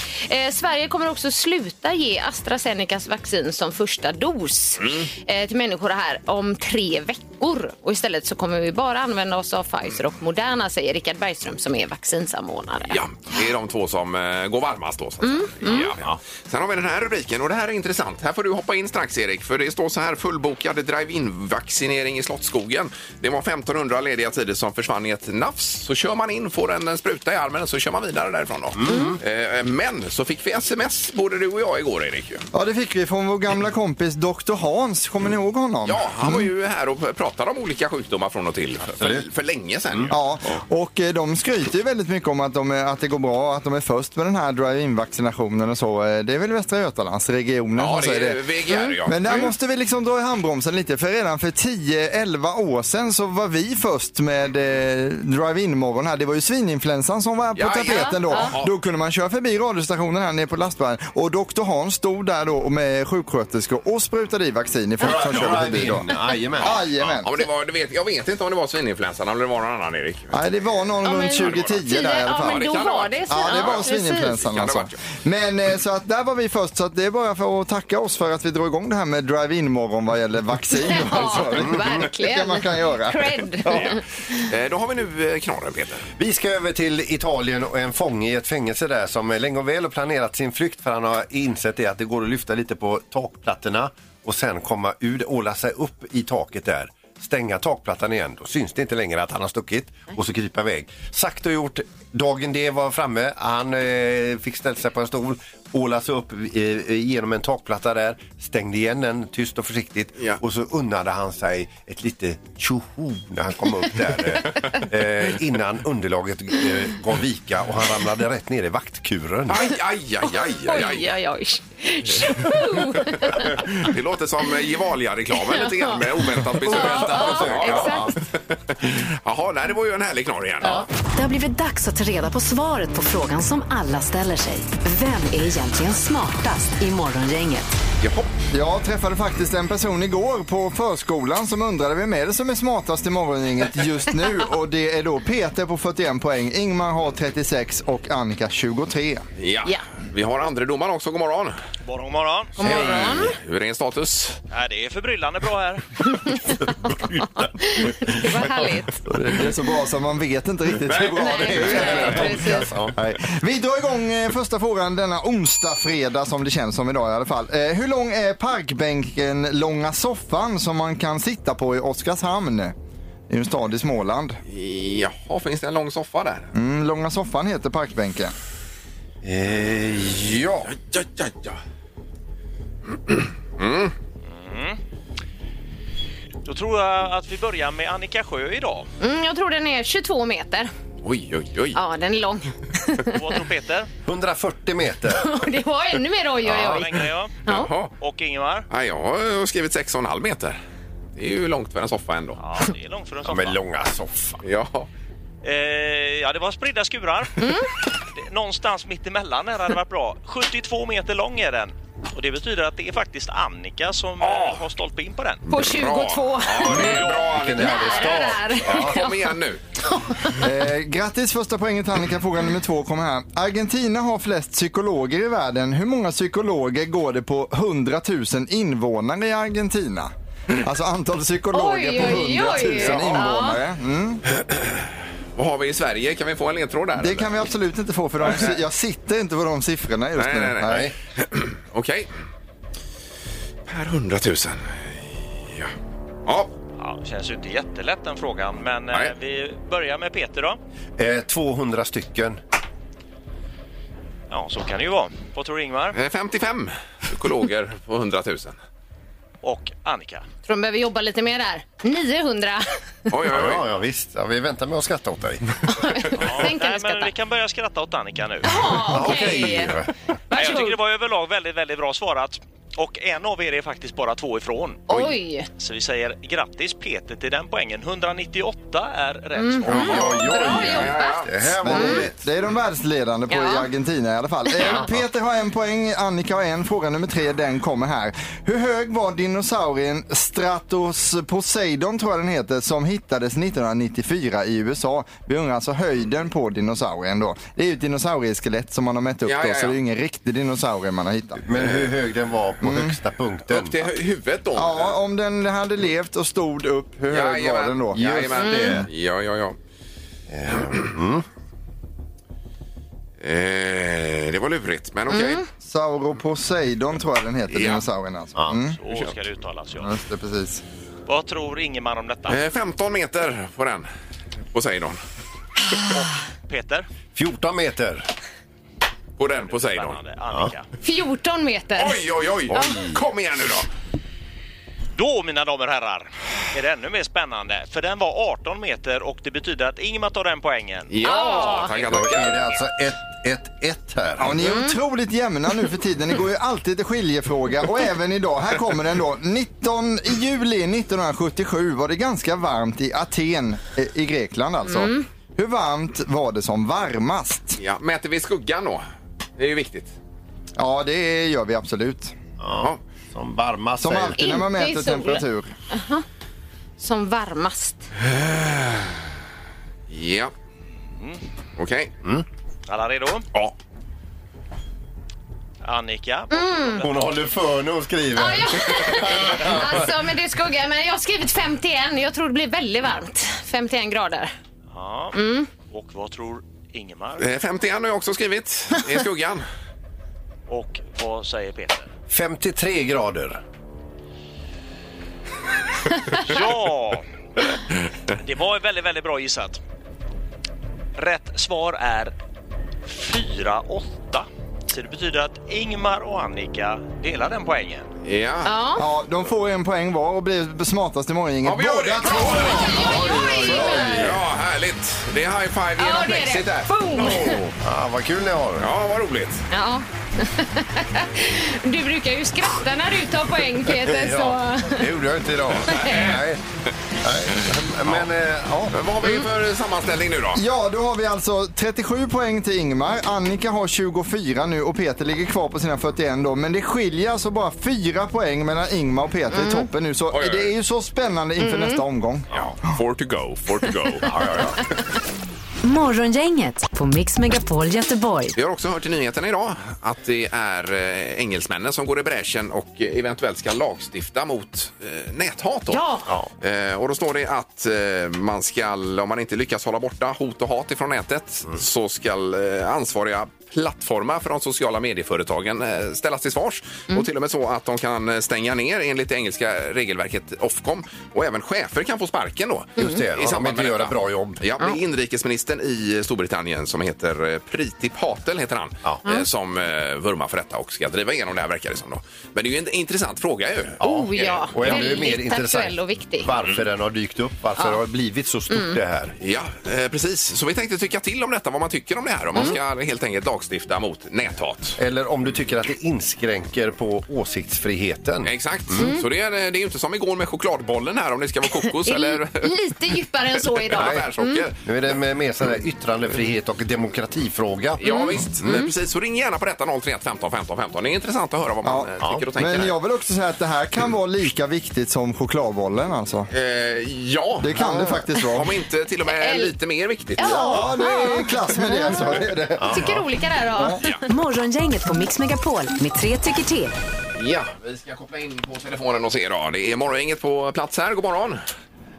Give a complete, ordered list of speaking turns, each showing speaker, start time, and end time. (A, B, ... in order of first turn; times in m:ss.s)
0:00.2-0:13.0 A
0:04.8-0:05.1 B
0:12.9-0:32.4 B
0:15.2-0:15.9 A
0:28.8-0:29.2 C
0:28.9-0:29.2 A
0:32.5-0:36.5 D
0:35.8-0:40.2 B
0:39.0-0:39.3 C
0:40.1-0:48.4 D
0:47.8-0:49.5 B
0:48.7-0:49.5 A
0:49.0-1:06.1 D
0:57.6-0:58.7 B
0:57.9-0:58.5 A
1:05.0-1:06.8 C
1:05.3-1:05.8 B
1:06.6-1:07.3 D
1:06.6-1:10.6 B
1:10.3-1:12.7 D
1:11.0-1:14.4 A
1:11.3-1:11.8 B
1:12.4-1:15.0 B
1:13.3-1:23.7 D
1:20.8-1:24.0 A
1:21.6-1:21.9 C
1:23.7-1:26.1 B
1:26.2-1:59.7 C
1:59.5-2:01.1 B
2:00.6-2:03.7 A
2:03.0-2:10.9 B
2:05.4-2:06.0 A
2:06.6-2:08.1 C
2:06.7-2:08.1 A
2:11.1-2:17.7 E
2:18.0-2:18.3 B
2:18.5-2:29.2 D
2:29.4-2:31.6 B
2:31.8-2:32.5 F
2:32.6-2:33.3 A
2:32.6-2:33.3 C
2:32.6-2:34.4 B
2:34.5-2:36.0 F
2:36.3-2:38.6 C
2:37.6-2:39.0 A
2:39.1-2:52.8 D
2:40.9-2:42.5 B
2:41.0-2:43.0 C
2:41.2-2:42.7 A
2:53.3-2:54.4 D
2:54.5-2:56.5 B
2:56.5-2:58.3 D
2:59.2-3:00.7 C
3:00.7-3:01.6 B
3:03.1-3:03.9 B
3:04.3-3:04.8 F
3:06.4-3:08.9 F
3:09.0-3:10.7 A
3:11.0-3:11.8 B
3:11.8-3:13.2 A
3:13.1-3:13.9 F
3:14.0-3:15.3 C
3:15.2-3:16.9 A
3:16.5-3:16.8 C
3:16.5-3:17.4 F
3:17.4-3:17.7 A
3:17.5-3:17.9 B
3:18.0-3:18.7 F
3:18.7-3:20.6 B
3:21.2-3:22.4 B
3:22.4-3:23.6 F
3:23.2-3:24.4 C
3:24.4-3:24.9 B
3:25.4-3:27.5 F
3:27.4-3:27.7 A
3:28.1-3:35.4 F
3:34.2-3:34.6 B
3:35.5-3:39.2 A
3:35.5-3:39.6 B
3:36.6-3:39.1 C
3:40.4-3:54.2 D
3:51.5-3:53.6 A
3:52.7-3:53.2 B
3:55.4-3:57.5 B
3:57.0-4:00.9 D
3:58.2-3:58.5 B
4:00.2-4:02.1 B
4:00.6-4:00.9 C
4:03.7-4:05.7 B
4:06.3-4:06.5 B
4:06.8-4:10.6 F
4:11.0-4:12.4 C
4:14.3-4:16.0 F
4:15.9-4:18.6 B
4:19.4-4:20.3 F
4:20.5-4:22.7 A
4:23.1-4:23.6 B
4:23.3-4:25.4 C
4:25.7-4:27.1 A
4:26.2-4:28.5 F
4:28.4-4:29.7 A
4:28.6-4:29.9 C
4:30.3-4:30.8 A
4:30.3-4:40.4 F
4:34.9-4:35.5 A
4:39.4-4:42.0 A
4:39.7-4:42.2 C
4:39.7-4:41.8 B
4:41.6-5:01.4 D
4:43.3-4:43.7 A
4:59.3-4:59.8 B
5:01.4-5:03.8 C
5:02.6-5:03.0 D
5:03.5-5:04.9 B
5:04.6-5:08.2 D
5:07.1-5:09.6 B
5:08.0-5:08.9 C
5:08.4-5:08.8 A
5:10.3-5:11.2 C
5:10.5-5:10.8 B
5:13.2-5:15.4 B
5:15.1-5:15.4 A
5:15.6-5:18.8 D
5:17.5-5:17.8 B
5:18.8-5:19.9 F
5:19.8-5:20.6 D
5:21.1-5:22.4 F
5:22.3-5:23.9 B
5:24.5-5:25.0 B
5:25.9-5:26.9 F
5:27.2-5:28.1 C
5:29.2-5:30.0 B
5:29.4-5:30.7 F
5:30.8-5:32.8 A
5:31.8-5:33.7 B
5:32.5-5:33.0 C
5:35.0-5:41.7 F
5:40.9-5:42.6 B
5:41.0-5:41.7 A
5:41.8-5:44.4 C
5:44.2-5:57.6 D
5:44.4-5:44.8 A
5:54.7-5:55.0 A
5:57.6-5:58.8 B
5:59.4-5:59.9 B
6:00.6-6:02.2 D
6:02.4-6:04.4 C
6:03.8-6:05.5 D
6:04.2-6:06.0 A
6:06.8-6:07.9 A
6:08.0-6:09.0 B
6:09.9-6:10.3 B
6:10.9-6:11.2 F
6:11.6-6:11.9 B
6:12.7-6:13.3 F
6:15.6-6:17.2 F
6:16.3-6:16.8 A
6:16.8-6:19.9 C
6:18.2-6:24.3 A
6:24.7-6:27.3 F
6:25.1-6:25.5 A
6:27.2-6:29.4 B
6:30.5-6:31.9 F
6:32.1-6:33.4 C
6:36.1-6:37.1 F
6:38.1-6:39.6 F
6:41.0-6:42.1 F
6:42.9-6:47.9 F
6:48.0-6:48.5 B
6:48.4-6:48.8 A
6:48.8-6:54.0 D
6:51.4-6:57.2 B
6:52.3-6:54.2 A
6:52.8-6:54.1 C
6:55.8-6:57.4 A
6:57.0-6:58.7 C
6:58.6-6:59.5 B
6:59.5-7:04.9 A
7:03.7-7:06.4 C
7:05.7-7:06.2 B
7:05.7-7:06.2 A
7:07.0-7:08.8 C
7:08.7-7:10.4 B
7:10.3-7:22.3 D
7:19.3-7:19.7 A
7:20.1-7:20.5 B
7:21.4-7:21.8 A
7:22.3-7:24.1 B
7:24.1-7:24.6 C
7:25.6-7:28.4 E
7:28.4-7:35.8 B
7:35.7-7:36.1 A
7:36.4-8:05.1 B
7:52.8-7:54.4 C
8:03.8-8:09.2 C
8:03.8-8:06.3 A
8:08.5-8:08.8 A
8:09.2-8:14.8 B
8:14.8-8:19.0 C
8:18.2-8:22.5 B
8:21.8-8:24.5 A
8:23.4-8:24.6 B
8:23.7-8:24.1 C
8:24.6-8:27.8 C
8:27.8-8:32.7 B
8:27.8-8:28.7 A
8:31.6-8:36.3 D
8:36.3-8:37.7 B
8:37.4-8:38.5 D
8:37.6-8:37.9 C
8:38.2-8:40.7 B
8:39.1-8:39.5 A
8:40.2-8:42.1 A
8:40.2-8:43.0 D
8:42.6-8:42.9 C
8:42.7-8:43.8 A
8:43.5-8:43.8 D
8:44.1-8:46.8 E
8:47.2-8:51.4 B